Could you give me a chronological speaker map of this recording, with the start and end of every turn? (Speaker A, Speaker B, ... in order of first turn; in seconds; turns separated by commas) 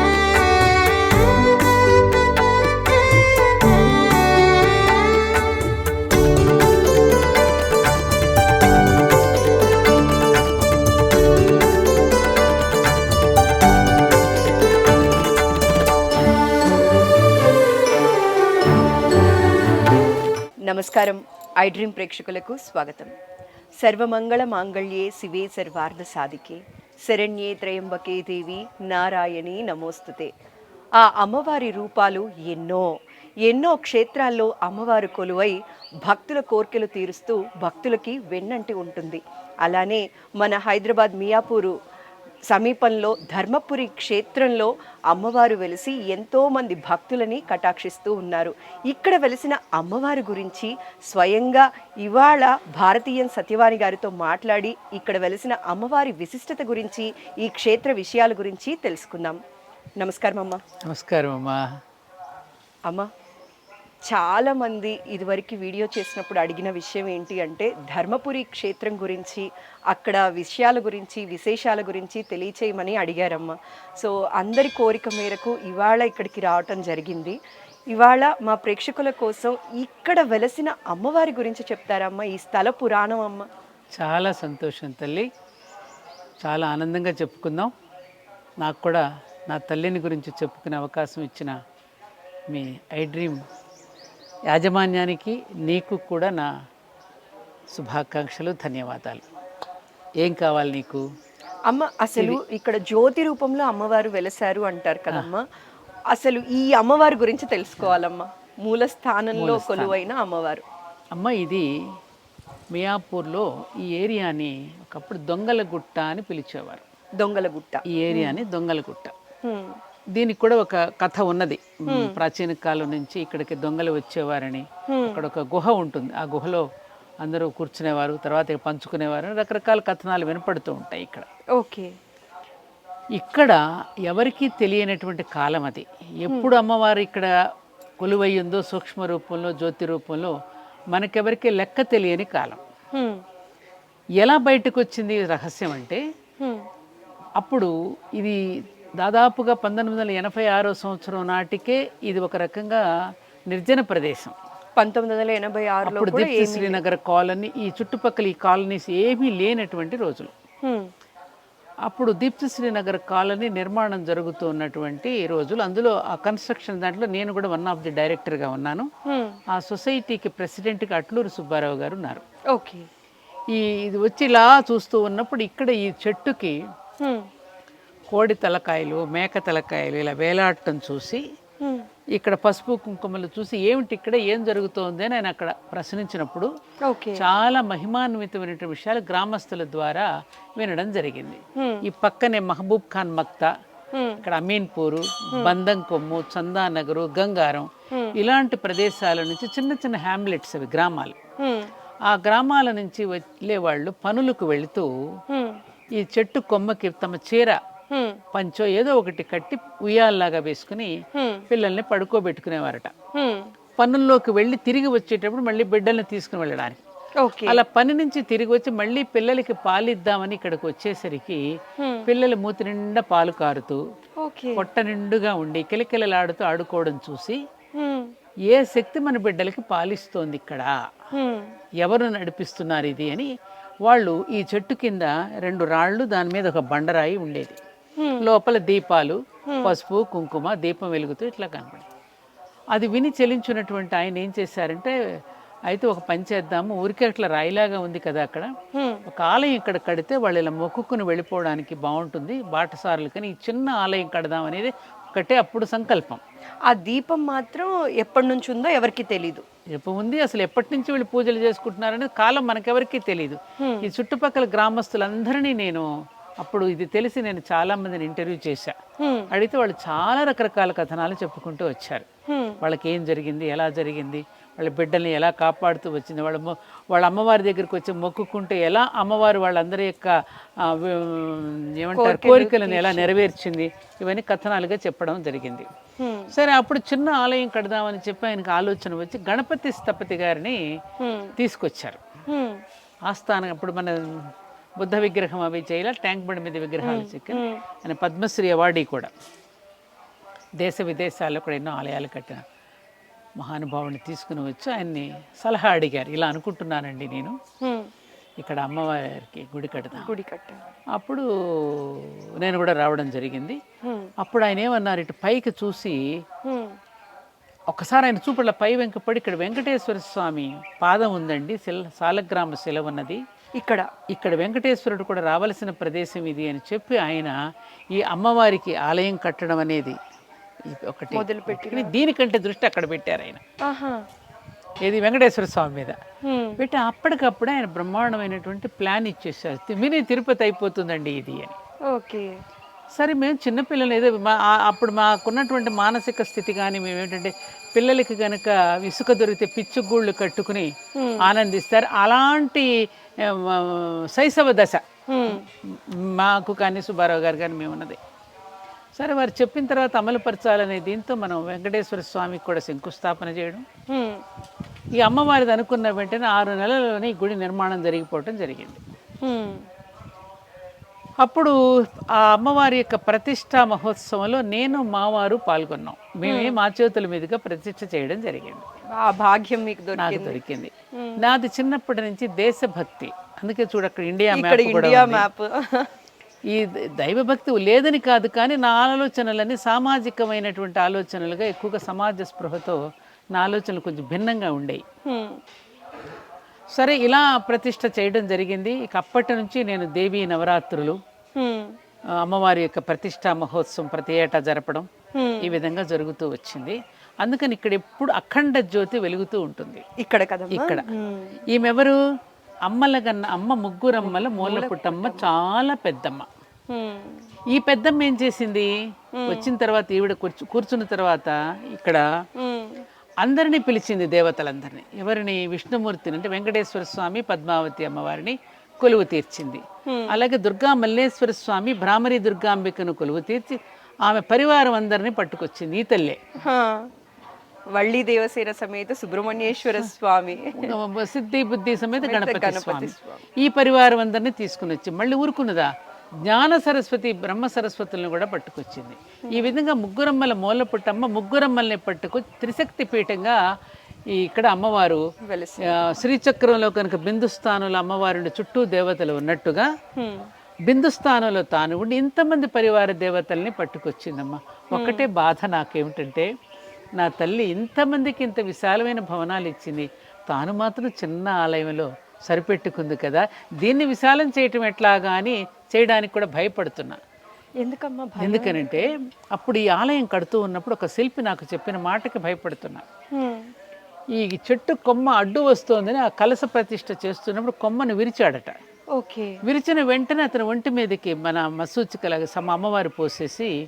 Speaker A: 20.6-23.1, Speaker A: 23.8-30.3, Speaker A: 31.0-32.9, Speaker A: 33.4-41.8, Speaker A: 42.5-59.4, Speaker A: 60.0-60.6, Speaker B: 60.9-61.6, Speaker A: 64.0-77.4, Speaker A: 77.9-83.5, Speaker B: 83.9-85.3, Speaker B: 86.4-87.7, Speaker B: 88.6-91.5, Speaker B: 92.5-93.4, Speaker B: 94.5-96.5, Speaker B: 97.7-99.2, Speaker B: 100.2-101.0, Speaker A: 101.7-105.4, Speaker A: 106.1-110.6, Speaker B: 109.3-110.0, Speaker B: 111.1-111.6, Speaker B: 112.7-116.8, Speaker A: 117.2-118.4, Speaker B: 117.9-119.1, Speaker A: 119.4-119.8, Speaker B: 120.2-126.6, Speaker A: 121.9-122.2, Speaker A: 124.9-125.2, Speaker B: 127.2-131.2, Speaker A: 131.6-131.9, Speaker B: 133.2-137.3, Speaker A: 136.3-136.5, Speaker B: 138.0-140.3, Speaker B: 140.9-142.6, Speaker A: 142.9-143.2, Speaker B: 144.2-146.0, Speaker A: 146.4-146.6, Speaker B: 147.4-148.4, Speaker B: 149.0-152.8, Speaker B: 153.5-154.3, Speaker A: 154.8-156.8, Speaker B: 155.8-160.3, Speaker A: 160.6-160.9, Speaker B: 161.8-168.9, Speaker A: 169.1-169.4, Speaker B: 169.5-172.2, Speaker A: 172.5-172.9, Speaker B: 173.5-176.6, Speaker A: 177.0-177.3, Speaker B: 178.1-181.2, Speaker A: 181.6-181.9, Speaker B: 182.1-186.5, Speaker A: 186.8-187.2, Speaker B: 187.1-193.5, Speaker A: 191.6-191.8, Speaker A: 193.9-194.2, Speaker B: 194.2-201.2, Speaker A: 197.9-198.2, Speaker A: 201.4-201.7, Speaker B: 202.1-205.2, Speaker A: 205.3-205.6, Speaker B: 205.9-207.6, Speaker A: 207.9-208.2, Speaker B: 208.3-210.9, Speaker A: 211.1-211.5, Speaker B: 211.5-212.9, Speaker A: 213.1-213.5, Speaker B: 213.8-216.8, Speaker A: 217.2-217.6, Speaker B: 217.4-221.4, Speaker A: 221.8-222.1, Speaker B: 222.1-223.8, Speaker A: 224.2-224.6, Speaker B: 224.5-227.4, Speaker A: 227.8-228.1, Speaker B: 228.5-230.7, Speaker A: 231.1-231.5, Speaker B: 231.8-233.3, Speaker B: 233.8-237.6, Speaker A: 238.0-238.3, Speaker B: 238.2-241.8, Speaker A: 239.5-239.7, Speaker B: 242.7-244.9, Speaker B: 245.7-248.5, Speaker A: 248.7-249.0, Speaker B: 249.1-256.2, Speaker A: 256.7-259.4, Speaker B: 259.7-265.9, Speaker A: 263.6-263.9, Speaker B: 266.4-268.7, Speaker A: 269.0-269.3, Speaker B: 269.3-272.0, Speaker A: 272.3-272.6, Speaker B: 272.6-285.7, Speaker A: 281.9-283.1, Speaker A: 286.0-286.3, Speaker B: 286.3-290.6, Speaker A: 291.0-291.3, Speaker B: 291.4-292.0, Speaker A: 292.3-292.6, Speaker B: 293.1-299.1, Speaker A: 296.8-297.6, Speaker B: 300.6-302.4, Speaker B: 303.4-307.4, Speaker A: 307.6-307.9, Speaker B: 308.4-310.1, Speaker A: 309.9-310.6, Speaker B: 310.9-313.6, Speaker A: 313.8-314.1, Speaker B: 314.2-316.0, Speaker A: 316.4-316.8, Speaker B: 317.7-323.2, Speaker A: 323.6-323.9, Speaker B: 324.1-327.4, Speaker B: 327.9-330.0, Speaker B: 330.6-333.4, Speaker A: 331.1-331.9, Speaker A: 333.6-334.0, Speaker B: 334.8-336.0, Speaker A: 336.2-336.6, Speaker B: 336.6-341.6, Speaker A: 341.9-342.3, Speaker B: 342.9-350.7, Speaker A: 350.9-351.3, Speaker B: 351.2-358.0, Speaker A: 355.1-355.4, Speaker B: 359.0-363.6, Speaker A: 363.9-364.2, Speaker B: 364.9-368.8, Speaker A: 369.2-369.6, Speaker B: 371.2-378.6, Speaker A: 376.2-376.6, Speaker A: 378.9-380.4, Speaker B: 379.9-385.3, Speaker A: 380.9-381.2, Speaker A: 384.3-385.9, Speaker B: 386.5-392.8, Speaker B: 393.3-394.8, Speaker A: 395.0-395.4, Speaker B: 396.7-401.0, Speaker A: 401.4-401.8, Speaker B: 402.2-404.9, Speaker A: 405.1-405.6, Speaker B: 405.4-409.8, Speaker A: 410.0-411.4, Speaker B: 410.5-410.9, Speaker B: 411.5-412.0, Speaker B: 412.6-416.3, Speaker A: 413.9-415.3, Speaker A: 416.7-417.3, Speaker B: 417.5-418.7, Speaker A: 419.1-419.5, Speaker B: 419.2-422.0, Speaker A: 422.4-422.8, Speaker B: 423.2-436.2, Speaker A: 429.9-430.2, Speaker A: 436.4-436.9, Speaker A: 437.7-440.7, Speaker B: 440.5-445.7, Speaker A: 442.0-443.2, Speaker B: 446.2-453.4, Speaker A: 449.3-449.6, Speaker B: 454.1-455.0, Speaker A: 455.2-456.0, Speaker B: 455.6-459.7, Speaker A: 459.9-460.3, Speaker B: 460.6-466.3, Speaker A: 464.7-465.1, Speaker B: 467.0-477.0, Speaker A: 477.6-478.9, Speaker B: 478.2-482.8, Speaker A: 483.1-483.5, Speaker B: 484.1-488.6, Speaker A: 488.9-489.4, Speaker B: 489.4-493.5